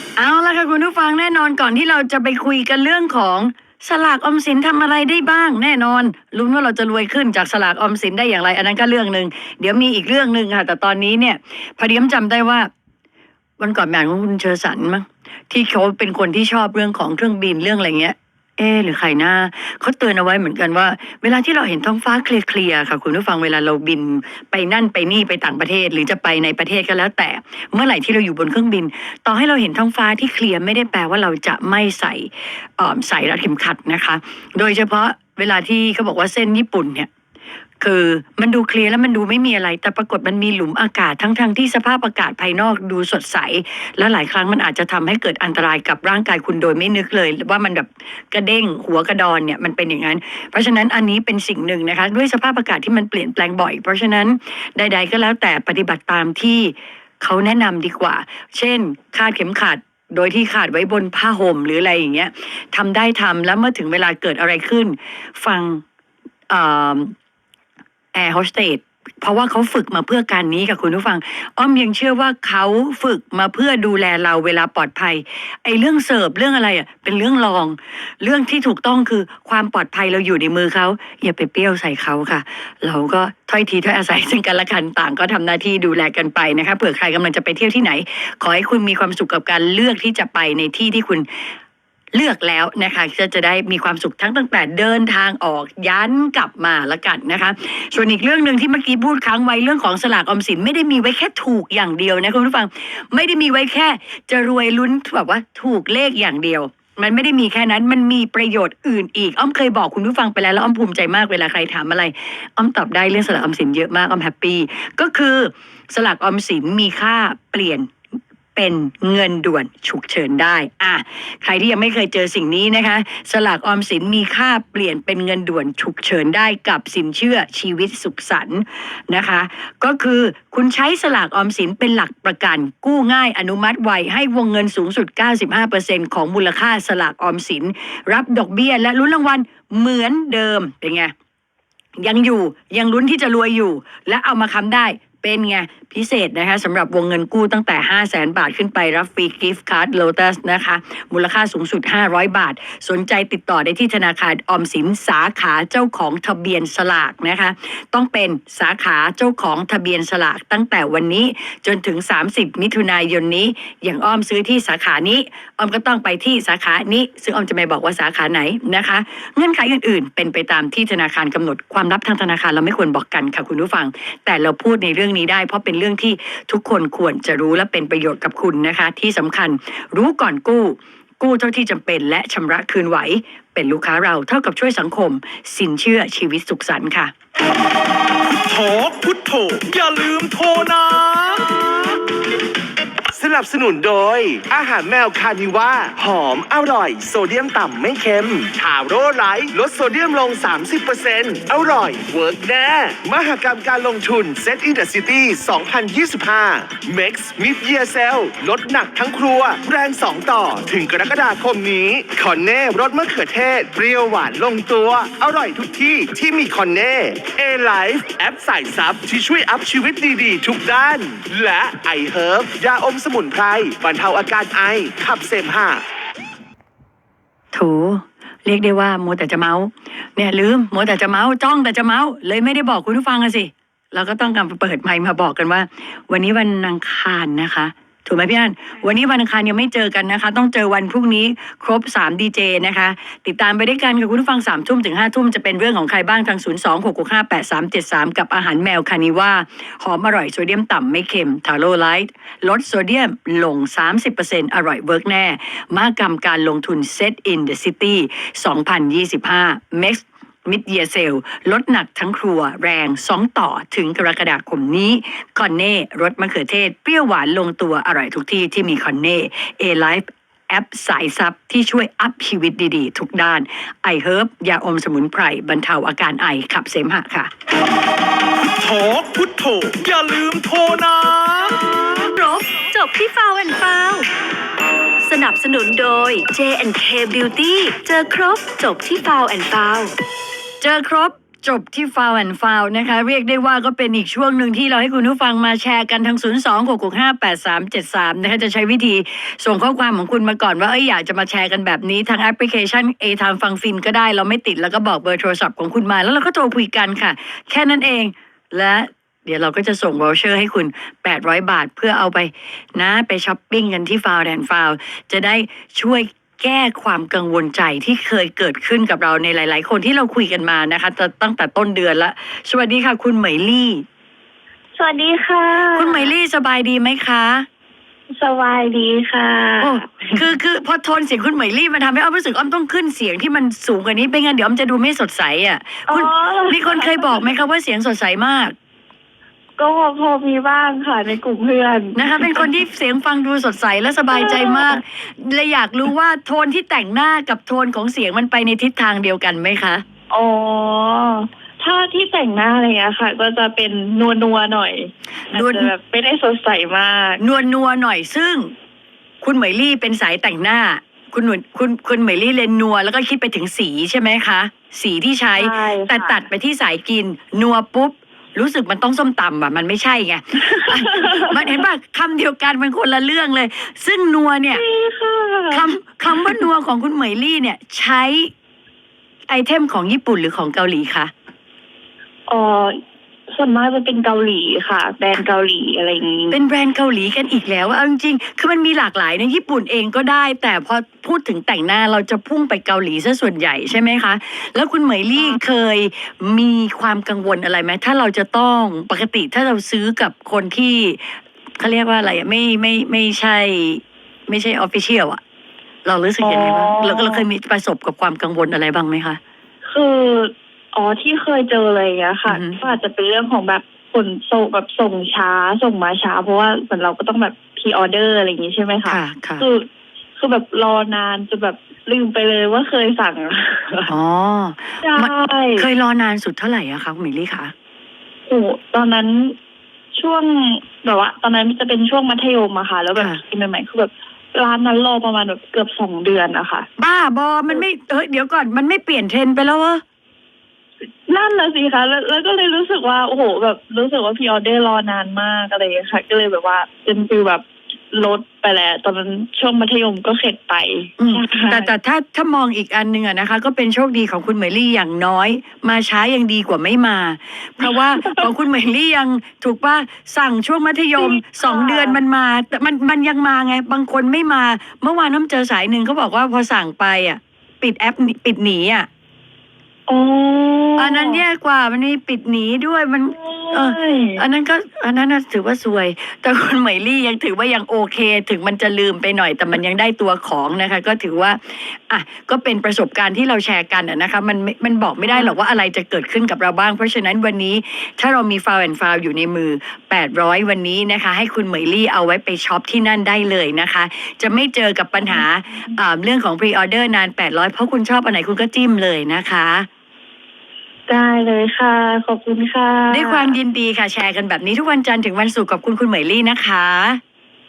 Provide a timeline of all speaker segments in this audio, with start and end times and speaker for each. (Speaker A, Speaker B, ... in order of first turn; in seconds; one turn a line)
Speaker A: 0.2-12.7
Speaker A: 13.6-37.1
Speaker A: 37.8-65.8
Speaker A: 66.5-67.1
Speaker A: 68.1-91.3
Speaker A: 92.1-117.9
Speaker A: 118.5-141.1
Speaker A: 142.0-187.1
Speaker B: 188.2-192.0
Speaker C: 193.1-225.8
Speaker A: 227.5-277.3
Speaker B: 278.4-282.1
Speaker D: 282.2-284.1
Speaker D: 285.0-289.9
Speaker A: 290.6-323.8
Speaker E: 324.8-326.1
Speaker A: 325.7-327.4
Speaker E: 328.1-330.2
Speaker A: 329.6-338.5
Speaker E: 335.9-337.1
Speaker E: 339.6-342.4
Speaker A: 341.9-349.8
Speaker E: 344.1-344.8
Speaker E: 350.1-357.2
Speaker A: 355.3-355.7
Speaker A: 357.2-358.5
Speaker A: 359.2-374.6
Speaker E: 365.4-366.2
Speaker E: 374.5-375.6
Speaker A: 375.5-378.3
Speaker A: 379.3-381.1
Speaker E: 382.3-382.8
Speaker E: 383.3-386.4
Speaker A: 386.3-405.2
Speaker A: 405.8-409.2
Speaker E: 406.2-407.2
Speaker E: 409.6-423.9
Speaker A: 412.2-412.6
Speaker A: 418.9-419.4
Speaker A: 423.9-427.5
Speaker E: 424.8-425.7
Speaker E: 428.3-429.4
Speaker E: 429.9-436.7
Speaker A: 432.9-433.2
Speaker A: 436.8-439.8
Speaker E: 441.1-451.7
Speaker A: 451.0-468.9
Speaker E: 461.0-462.0
Speaker E: 469.9-471.2
Speaker A: 470.8-499.7
Speaker E: 473.2-474.2
Speaker E: 485.0-485.3
Speaker E: 500.9-503.3
Speaker A: 502.9-507.0